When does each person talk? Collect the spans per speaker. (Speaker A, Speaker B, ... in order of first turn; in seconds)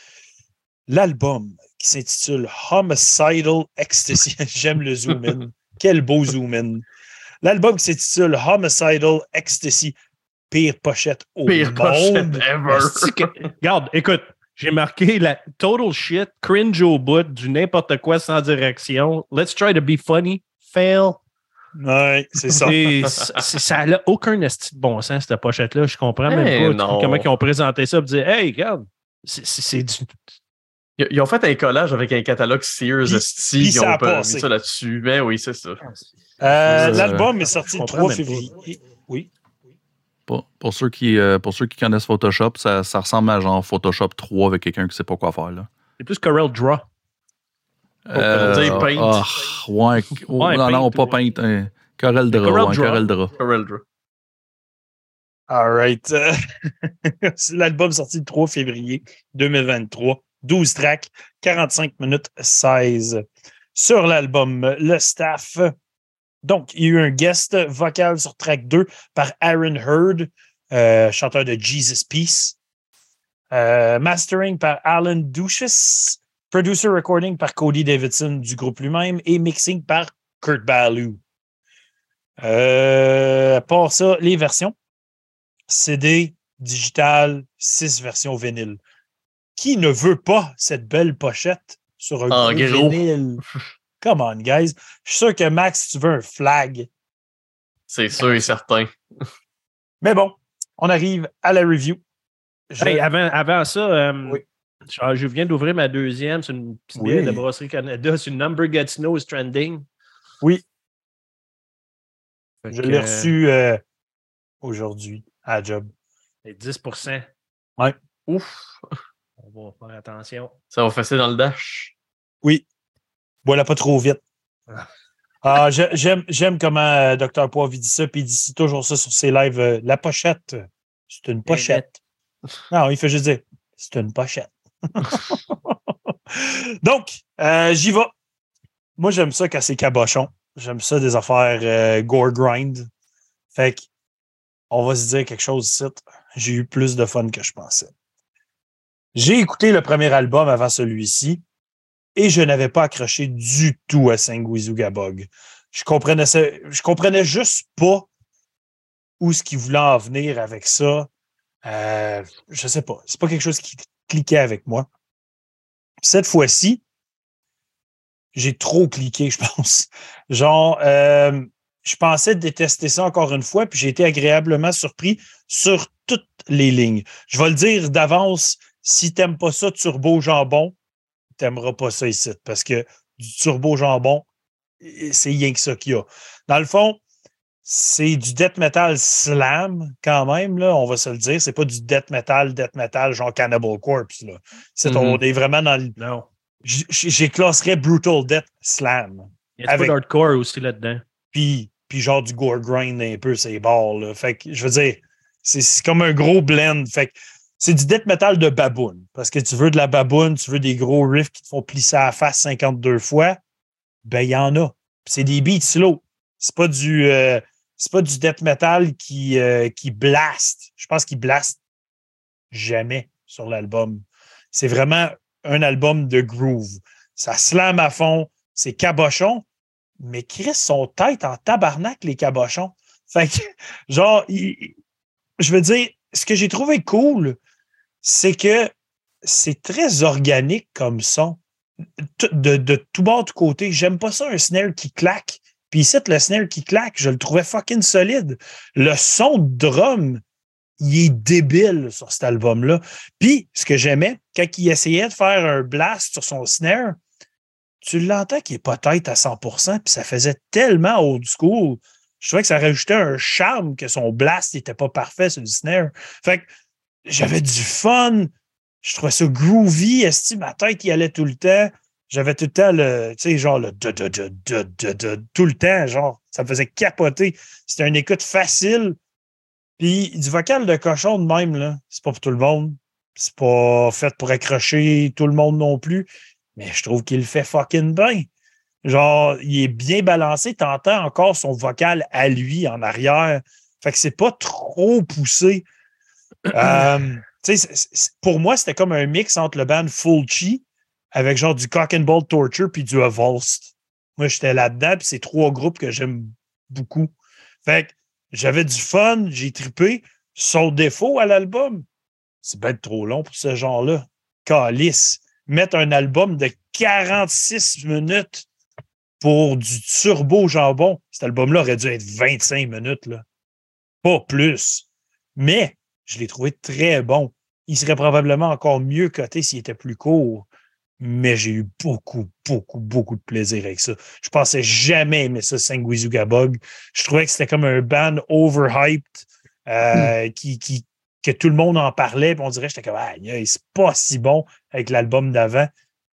Speaker A: 0.9-6.8, 7.4-9.9, 10.5-12.5, 21.8-22.8, 33.0-34.5, 36.4-39.3, 55.5-63.2, 63.8-65.7, 66.4-72.6, 73.5-81.2, 82.4-84.8, 85.7-88.8, 89.6-93.4, 94.0-96.9, 100.0-102.0, 102.7-103.0, 107.0-107.4, 112.7-113.8, 114.6-115.9, 123.5-124.2, 125.4-131.9, 132.7-138.1, 139.0-142.9, 143.6-143.9, 144.7-147.9, 149.2-151.4, 152.2-158.1, 159.2-161.1, 161.6-164.9, 166.0-166.8, 168.3-180.8, 181.4-184.3, 184.8-187.0, 187.7-195.9, 196.6-199.9, 201.3-213.4, 214.1-221.6, 222.5-229.4, 230.0-234.8, 235.4-237.4, 238.0-241.4, 242.0-250.2, 250.8-257.0, 257.8-266.4, 267.1-268.3, 268.8-279.0, 279.8-288.3, 288.8-295.6, 296.5-307.1, 307.7-311.9, 312.4-318.5, 319.2-323.2, 324.0-330.5, 331.0-345.7
Speaker B: 11.5-13.3, 26.3-27.3, 31.0-35.8, 36.7-37.1, 48.2-49.3, 53.4-53.8, 92.3-93.0, 97.9-99.2, 118.3-118.8, 120.7-121.9, 194.8-195.2
Speaker C: 12.7-21.2, 22.6-30.1, 37.7-38.5, 46.0-46.9, 50.4-51.2, 52.3-53.1, 102.8-109.9, 112.6-113.3, 116.4-117.3, 119.4-120.5, 131.5-131.9, 196.0-196.3, 199.6-201.0
Speaker D: 36.7-37.3, 40.3-45.7, 48.1-53.3